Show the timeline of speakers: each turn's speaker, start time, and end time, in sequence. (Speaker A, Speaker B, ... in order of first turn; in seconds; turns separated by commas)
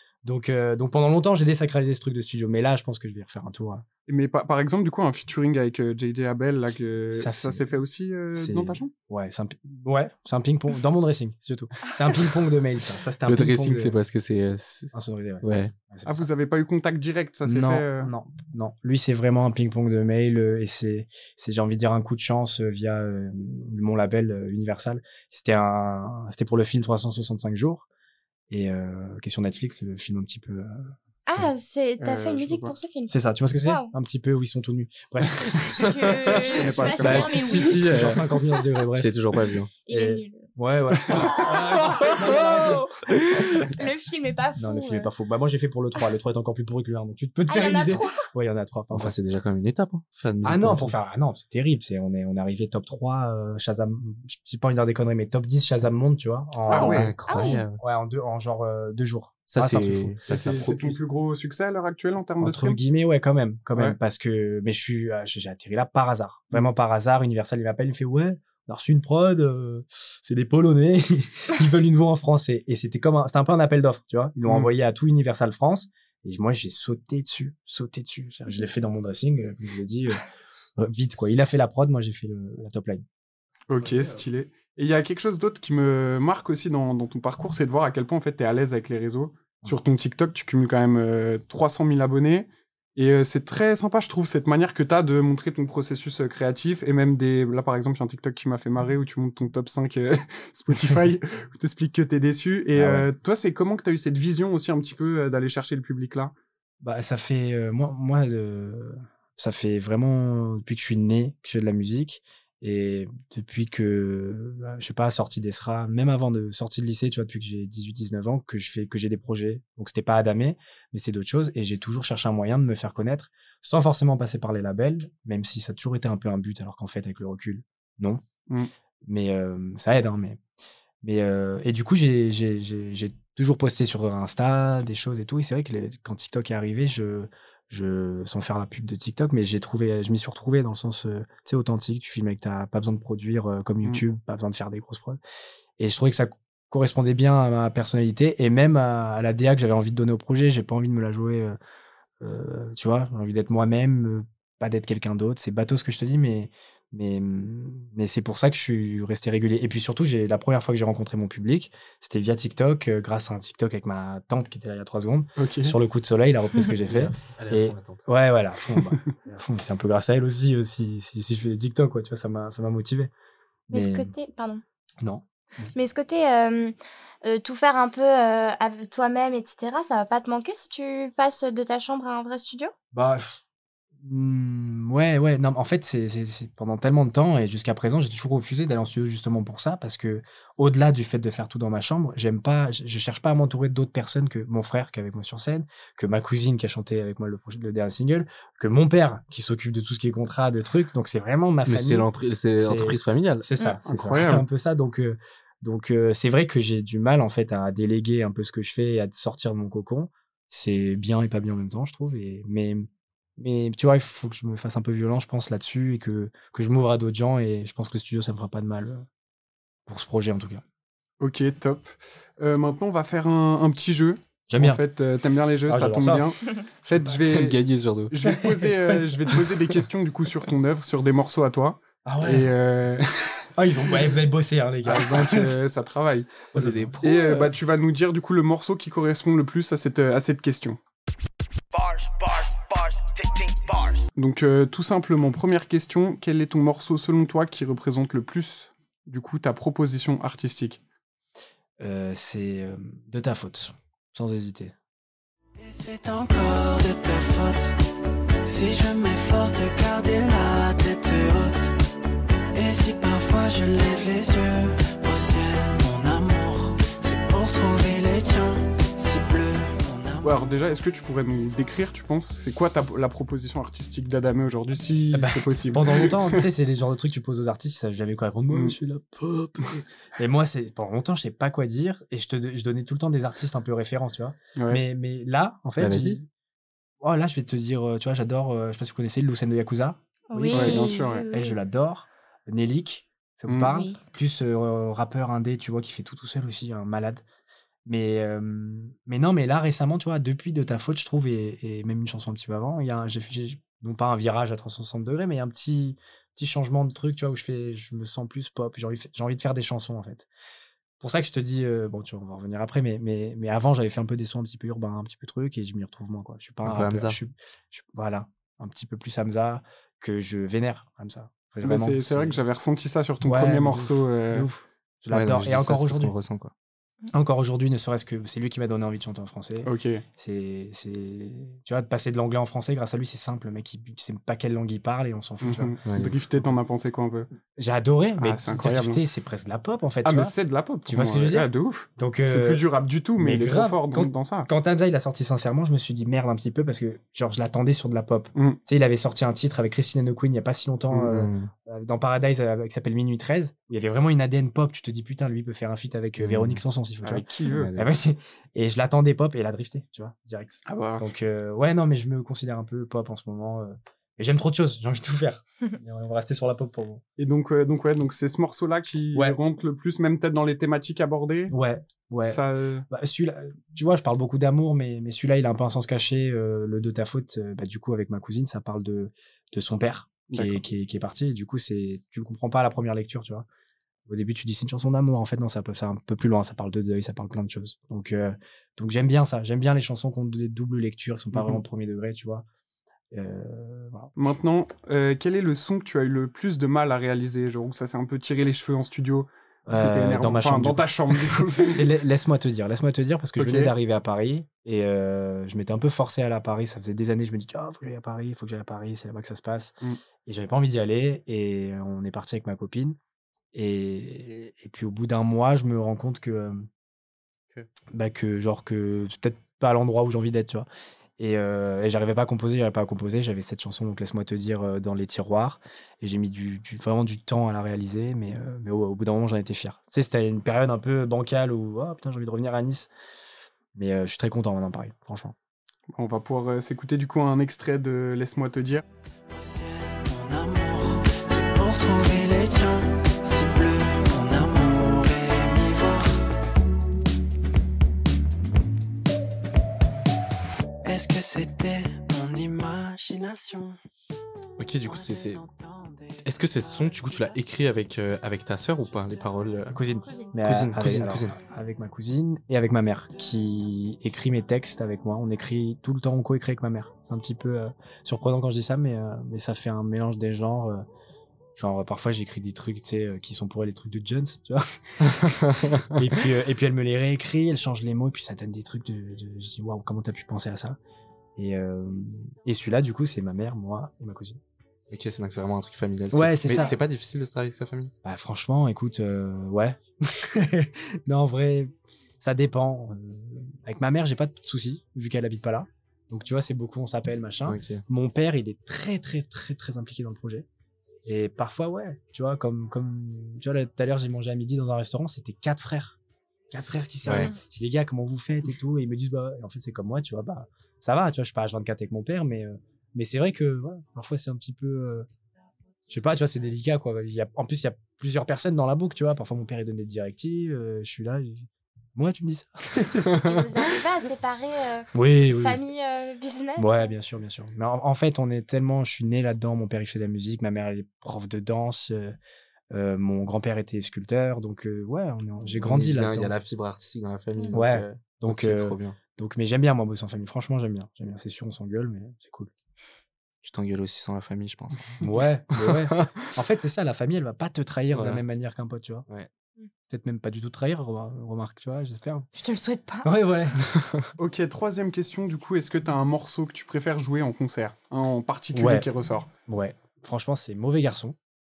Speaker A: 0.2-3.9, Speaker B: 4.1-8.9, Speaker A: 7.1-7.6, Speaker A: 8.4-14.0, Speaker C: 13.3-15.7, Speaker A: 14.9-16.3, Speaker B: 16.1-18.1, Speaker A: 17.5-27.9, Speaker A: 28.5-30.9, Speaker D: 31.3-33.9, Speaker B: 32.0-32.8, Speaker A: 33.1-39.2, Speaker D: 35.6-37.9, Speaker B: 36.5-37.6, Speaker C: 37.0-38.3, Speaker C: 39.0-39.7, Speaker D: 39.9-40.5, Speaker A: 39.9-42.9, Speaker D: 41.1-42.8, Speaker D: 43.7-45.1, Speaker A: 44.6-49.2, Speaker D: 47.5-48.2, Speaker C: 48.9-50.9, Speaker A: 50.4-57.1, Speaker B: 56.7-57.1, Speaker D: 56.7-57.6, Speaker C: 56.8-57.8, Speaker A: 57.8-60.6, Speaker C: 59.5-61.0, Speaker B: 60.3-62.8, Speaker A: 62.4-80.2, Speaker A: 80.8-83.0, Speaker B: 83.7-106.3, Speaker A: 102.8-103.1, Speaker A: 106.8-128.2, Speaker A: 129.1-130.4, Speaker A: 131.0-145.2, Speaker A: 145.8-151.6, Speaker A: 152.2-173.1, Speaker B: 165.4-165.8, Speaker C: 166.9-168.1, Speaker A: 173.7-174.1, Speaker D: 173.7-174.6, Speaker A: 175.0-175.7, Speaker D: 175.7-182.7, Speaker A: 182.9-183.4, Speaker A: 184.0-219.1, Speaker C: 201.7-203.5, Speaker B: 203.9-204.4, Speaker A: 219.9-220.6, Speaker B: 221.2-233.4, Speaker A: 224.5-224.8, Speaker A: 225.7-226.3, Speaker C: 227.3-228.1, Speaker A: 228.2-229.8, Speaker A: 232.1-232.5, Speaker A: 233.6-235.6, Speaker B: 234.8-236.5, Speaker C: 236.5-237.5, Speaker A: 236.5-236.9, Speaker B: 237.0-240.8, Speaker E: 241.7-244.0, Speaker B: 244.2-250.8, Speaker A: 251.8-254.7, Speaker F: 255.6-257.7, Speaker F: 258.4-261.7, Speaker F: 262.5-270.4, Speaker B: 270.2-276.4, Speaker A: 275.1-286.3, Speaker B: 278.5-278.8, Speaker B: 284.6-284.8, Speaker C: 285.8-286.2, Speaker A: 287.0-297.2, Speaker D: 290.3-291.6, Speaker B: 290.5-291.2, Speaker B: 293.5-293.7, Speaker D: 293.7-294.0, Speaker A: 297.9-310.3, Speaker A: 311.0-322.4, Speaker C: 316.6-317.2, Speaker B: 321.6-324.5, Speaker A: 323.2-326.1, Speaker C: 325.1-326.5, Speaker A: 327.1-335.8, Speaker B: 329.6-330.0, Speaker B: 335.4-337.3, Speaker C: 335.9-336.1, Speaker A: 337.6-340.3, Speaker B: 338.2-339.0, Speaker B: 340.1-344.5, Speaker A: 340.9-342.6, Speaker A: 343.2-367.0, Speaker C: 350.9-351.5, Speaker C: 356.2-356.6, Speaker B: 357.0-357.7, Speaker C: 357.5-357.9, Speaker B: 360.7-361.0, Speaker B: 367.2-371.6, Speaker A: 371.5-383.5, Speaker B: 372.2-372.9, Speaker B: 380.3-380.6, Speaker A: 384.1-392.5, Speaker B: 391.3-391.6, Speaker A: 393.1-394.1, Speaker B: 394.2-401.9, Speaker A: 399.7-413.0, Speaker B: 403.4-403.7, Speaker A: 413.5-416.7, Speaker A: 417.9-420.7, Speaker A: 421.2-432.9, Speaker A: 433.8-435.4, Speaker B: 435.9-438.8, Speaker F: 439.3-446.2, Speaker F: 450.9-453.8, Speaker C: 454.6-455.4, Speaker F: 454.8-456.2, Speaker C: 456.2-459.8, Speaker A: 459.7-470.9, Speaker C: 460.4-461.4, Speaker A: 471.6-480.8, Speaker C: 475.0-476.0, Speaker A: 481.4-484.4, Speaker C: 484.9-487.9, Speaker A: 486.1-486.8, Speaker A: 488.0-500.5, Speaker C: 497.5-497.8, Speaker A: 501.1-506.0, Speaker A: 506.5-515.1, Speaker C: 507.0-507.3, Speaker A: 515.9-523.2, Speaker D: 523.2-526.9, Speaker A: 524.9-525.6, Speaker A: 526.6-532.2, Speaker A: 532.7-536.3, Speaker C: 535.5-539.0, Speaker A: 537.5-542.5, Speaker C: 543.4-546.1, Speaker A: 545.0-549.1, Speaker C: 547.9-548.2, Speaker A: 549.9-552.3, Speaker D: 552.3-553.1, Speaker A: 553.0-553.7, Speaker C: 553.6-554.1, Speaker B: 554.2-559.3, Speaker A: 558.5-558.9, Speaker A: 559.5-561.2